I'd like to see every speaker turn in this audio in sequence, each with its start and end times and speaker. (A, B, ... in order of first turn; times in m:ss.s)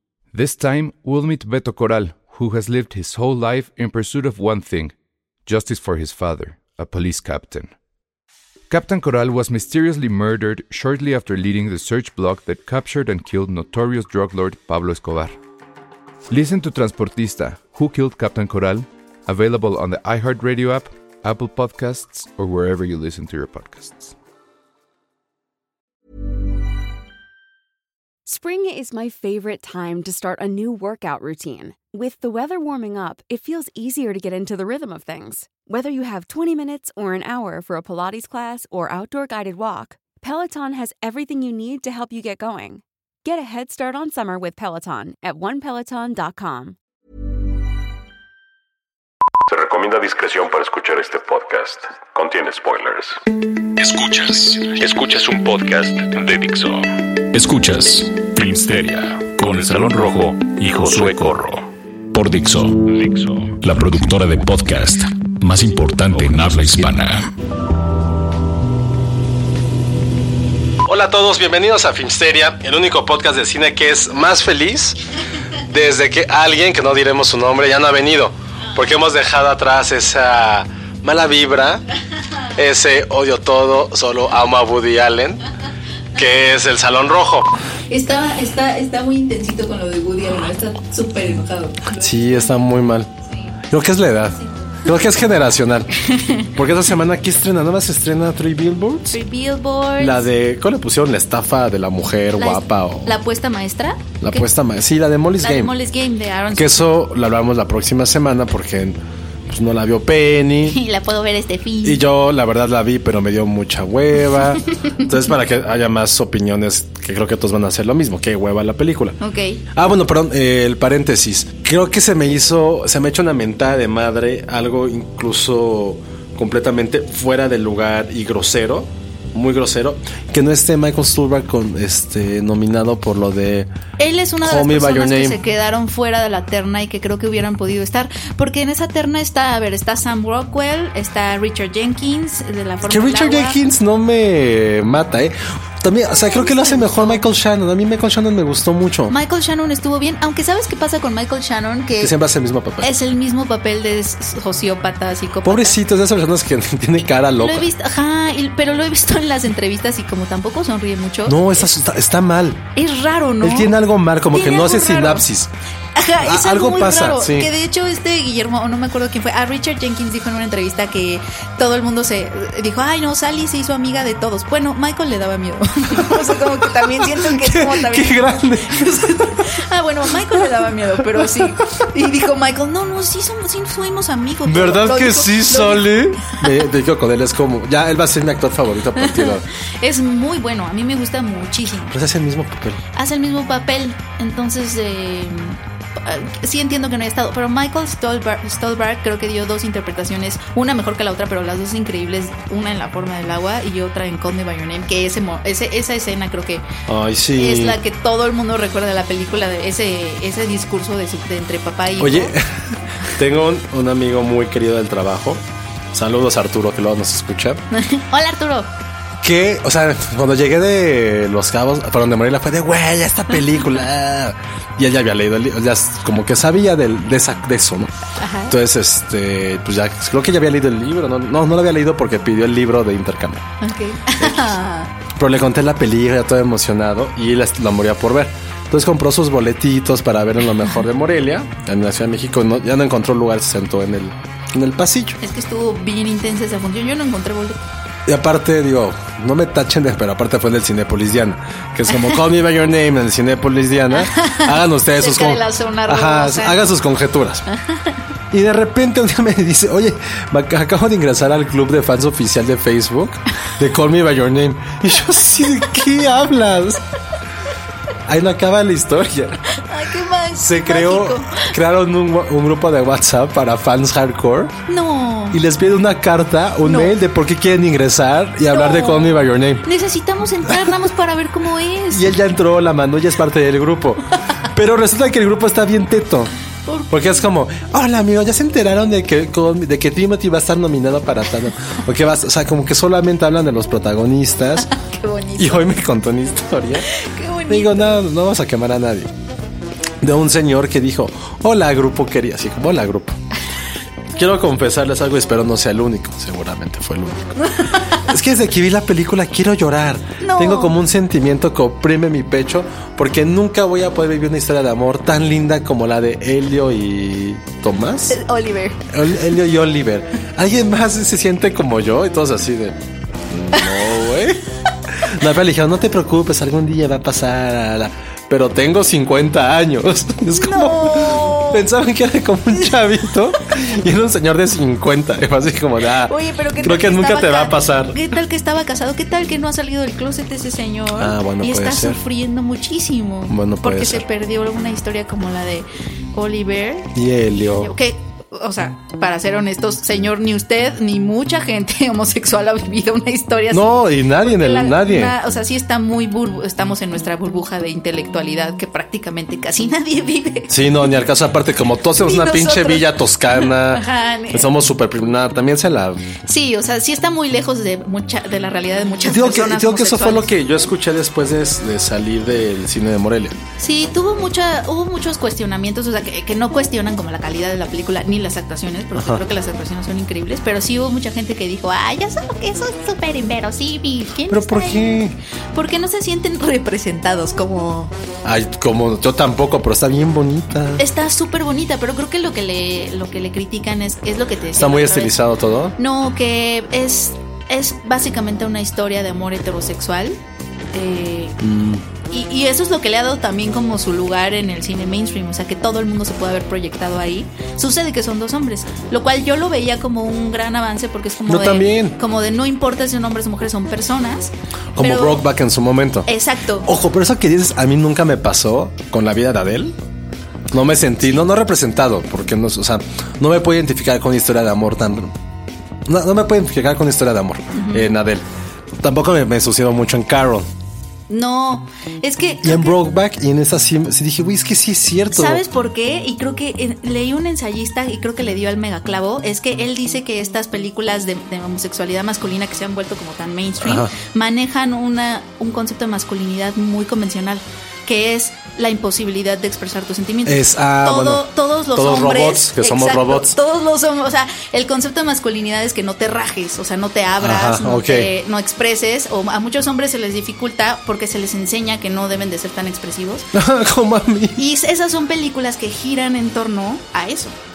0:00.3-0:04.9 A
0:05.4-0:07.7 A
0:08.7-0:15.4 A
0:16.3-0:24.1 A
0:28.2-0:46.8 B
0:49.4-0:53.2 C
0:53.8-1:07.3 C
1:10.8-1:15.0 D
1:15.7-1:21.8 D
1:22.6-1:25.4 D
1:26.1-1:27.5 D
1:27.9-1:32.5 E
1:31.9-1:33.1 D
1:33.3-1:33.5 E
1:33.7-1:39.2 D
1:36.0-1:36.5 E
1:39.1-1:40.3 E
1:40.0-1:43.2 D
1:42.4-1:44.5 E
1:44.2-1:45.7 D
1:45.4-1:46.9 E
1:46.5-1:50.8 D
1:50.7-1:52.0 E
1:51.8-1:59.2 D
1:59.2-1:59.6 E
1:59.7-2:13.7 D
2:14.0-2:23.6 E
2:14.4-2:15.4 D
2:22.9-2:29.2 D
2:26.1-2:27.2 E
2:29.1-2:32.1 E
2:32.0-2:32.9 D
2:32.8-2:35.8 E
2:35.4-2:37.7 D
2:37.4-2:41.7 E
2:41.2-2:42.6 D
2:42.7-2:43.7 E
2:43.4-2:45.5 D
2:44.3-2:45.2 E
2:45.9-3:06.4 E
2:46.2-2:47.5 D
2:56.5-2:59.5 D
3:04.4-3:09.4 D
3:09.0-3:11.9 E
3:11.8-3:12.8 D
3:12.9-3:26.6 E
3:26.9-3:27.8 D
3:27.3-3:32.3 E
3:32.0-3:37.6 D
3:37.7-3:38.7 E
3:39.2-3:47.9 D
3:48.2-3:48.6 E
3:48.5-3:53.4 D
3:53.6-3:54.9 E
3:54.2-3:54.6 D
3:55.1-4:05.2 D
4:05.2-4:07.6 E
4:08.1-4:17.4 D
4:13.9-4:16.6 E
4:17.5-4:18.0 E
4:18.3-4:26.8 D
4:28.0-4:29.4 D
4:29.5-4:31.5 E
4:30.4-4:34.6 D
4:34.7-4:35.4 E
4:35.3-4:39.7 D
4:36.6-4:37.0 E
4:38.5-4:42.1 E
4:41.9-4:46.3 D
4:46.6-4:47.2 E
4:46.9-4:54.7 D
4:54.6-4:55.7 E
4:55.4-4:56.9 D
4:56.9-4:58.0 E
4:57.5-4:59.1 D
5:00.0-5:03.2 D
5:04.1-5:18.2 D
5:10.2-5:10.8 E
5:18.1-5:18.8 E
5:18.9-5:22.8 D
5:23.3-5:24.4 D
5:25.0-5:38.0 D
5:30.3-5:31.7 E
5:36.0-6:00.9 E
5:40.9-5:42.0 D
5:43.3-5:44.0 D
5:46.9-5:47.7 D
5:53.5-5:55.2 D
6:00.5-6:06.0 D
6:01.9-6:04.5 E
6:06.2-6:10.3 E
6:09.0-6:13.4 D
6:13.6-6:25.0 E
6:19.0-6:19.2 D
6:24.3-6:25.2 D
6:25.5-6:27.9 E
6:28.2-6:30.8 D
6:30.8-6:35.1 E
6:34.5-6:35.8 D
6:35.8-6:40.2 E
6:40.7-6:41.4 E
6:41.4-6:41.8 D
6:42.1-6:55.2 E
6:51.3-6:52.0 D
6:54.7-6:56.1 D
6:56.0-6:56.7 E
6:56.6-6:59.7 D
7:00.5-7:05.2 D
7:05.8-7:08.2 D
7:07.5-7:07.9 E
7:08.8-7:10.5 D
7:11.1-7:12.8 E
7:12.4-7:15.4 D
7:15.1-7:43.3 E
7:23.6-7:23.9 D
7:30.2-7:33.4 D
7:37.2-7:38.1 D
7:43.3-7:44.4 D
7:44.4-7:47.4 E